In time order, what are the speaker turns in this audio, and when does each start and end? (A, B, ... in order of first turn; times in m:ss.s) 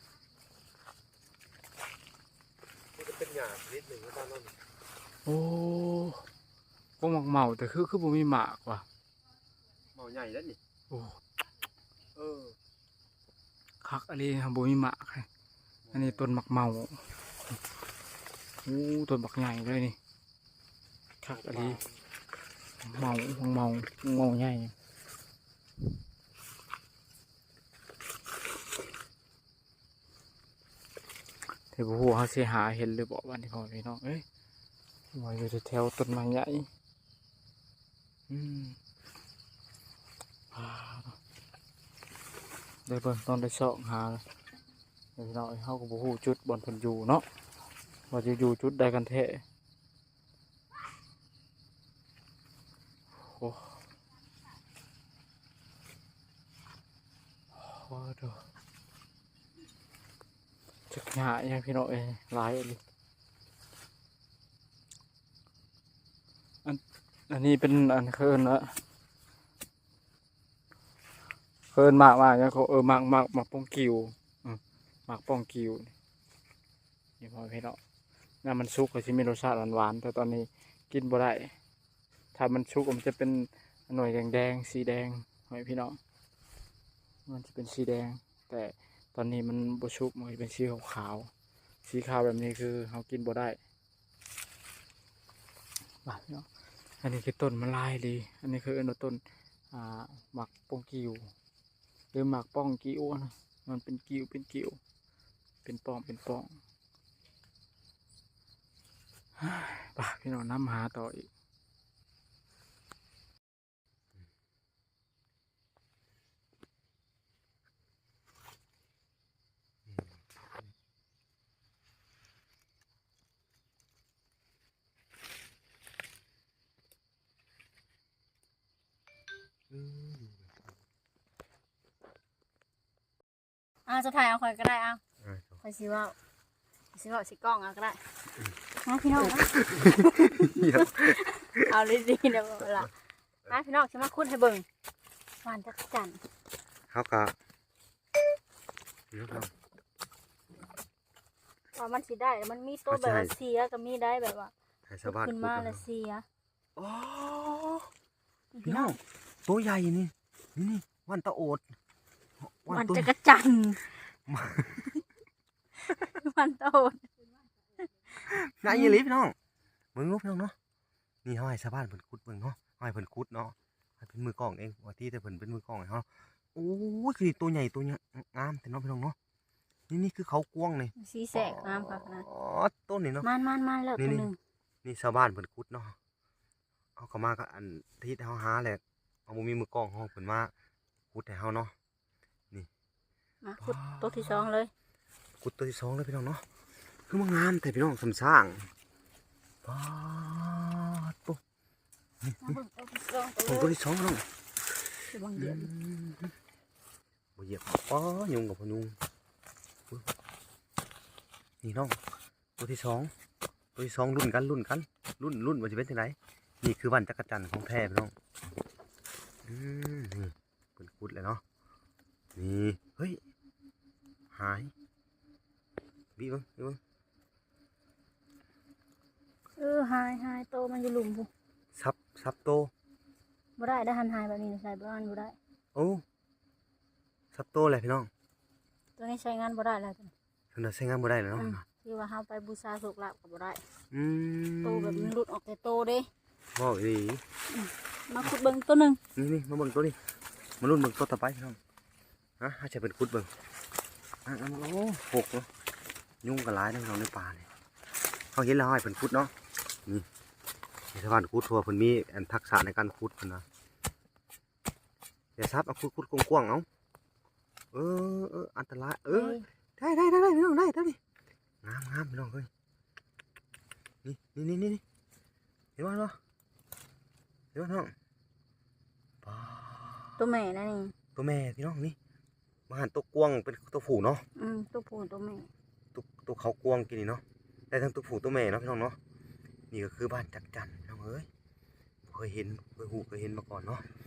0:02.9-0:04.6 A
0:05.2-0:06.2 B
0:07.0-0:08.8 B
0:09.9-0:10.6 A
0:10.9-0:11.2 B
0:12.1-0:12.6 A
0:13.8-0:15.3 B
0:15.8-0:16.2 A
0:15.9-0:17.1 B
0:18.6-0:20.0 B
0:21.2-0:21.8 B
0:21.3-0:21.9 A
0:22.8-0:24.7 B
0:31.6-0:34.2 B
0:35.1-0:36.7 B
0:38.3-0:38.8 B
0:40.5-0:41.2 B
0:42.8-0:44.2 B
0:45.2-0:47.2 B
0:48.1-0:49.4 B
0:53.2-0:53.8 B
0:57.5-0:58.4 B
1:00.9-1:02.8 B
1:06.6-1:08.8 B
1:11.7-1:15.9 B
1:17.2-1:17.8 B
1:18.4-1:21.5 B
1:22.3-1:26.0 B
1:27.2-1:31.3 B
1:31.8-1:33.6 B
1:36.0-1:36.5 B
1:37.0-1:39.2 B
1:39.7-1:41.3 B
1:42.1-1:44.8 B
1:45.6-1:46.6 B
1:49.4-1:51.3 B
1:59.9-2:00.7 A
2:09.7-2:10.7 A
2:13.8-2:15.0 C
2:15.2-2:15.6 A
2:15.6-2:16.2 C
2:16.9-2:18.1 C
2:18.8-2:22.9 C
2:19.2-2:21.8 A
2:22.6-2:22.9 A
2:23.5-2:24.6 C
2:25.4-2:26.2 C
2:26.9-2:27.3 A
2:29.1-2:29.5 A
2:31.7-2:34.5 C
2:32.9-2:33.3 A
2:34.9-2:35.8 A
2:35.0-2:36.2 C
2:36.8-2:37.9 A
2:38.5-2:39.0 C
2:38.6-2:41.7 A
2:42.4-2:43.1 A
2:42.7-2:43.9 C
2:44.2-2:45.0 A
2:45.8-2:47.1 C
2:47.8-2:48.1 C
2:48.2-2:49.3 A
2:48.6-2:49.0 C
2:49.9-2:50.5 A
2:51.2-2:59.2 A
2:59.9-3:03.3 A
3:01.0-3:02.2 C
3:03.2-3:04.4 C
3:04.0-3:04.3 A
3:04.8-3:06.0 A
3:07.0-3:10.5 A
3:11.1-3:11.7 A
3:13.4-3:14.7 C
3:13.6-3:14.5 A
3:15.4-3:16.4 A
3:17.1-3:18.7 A
3:19.6-3:21.4 A
3:22.2-3:22.6 A
3:22.4-3:23.7 C
3:23.4-3:24.3 A
3:25.1-3:25.7 C
3:25.3-3:26.4 A
3:27.4-3:29.0 A
3:29.9-3:30.1 A
3:31.6-3:32.0 A
3:32.6-3:33.1 A
3:33.7-3:38.1 A
3:39.4-3:41.4 A
3:42.4-3:43.2 A
3:44.3-3:44.7 A
3:46.2-3:46.8 A
3:49.6-3:51.3 C
3:51.7-3:52.7 A
3:53.6-3:55.4 C
3:55.7-3:56.0 A
3:57.3-3:58.1 A
3:59.0-4:00.1 C
4:00.5-4:01.6 A
4:01.3-4:03.6 C
4:03.9-4:05.1 A
4:04.6-4:06.1 C
4:06.6-4:07.2 A
4:07.5-4:09.0 C
4:09.2-4:10.0 A
4:10.6-4:11.6 A
4:12.4-4:13.3 A
4:14.2-4:15.5 A
4:16.2-4:17.5 A
4:18.3-4:19.3 A
4:20.9-4:23.4 A
4:25.4-4:26.7 A
4:27.7-4:31.0 A
4:29.1-4:29.4 C
4:31.6-4:32.5 A
4:34.0-4:34.8 A
4:35.8-4:36.2 A
4:37.5-4:37.9 A
4:39.2-4:40.2 A
4:40.2-4:40.9 C
4:41.2-4:42.0 A
4:42.7-4:44.2 A
4:44.4-4:45.5 C
4:45.9-4:49.0 A
4:49.7-4:51.3 A
4:52.0-4:53.8 A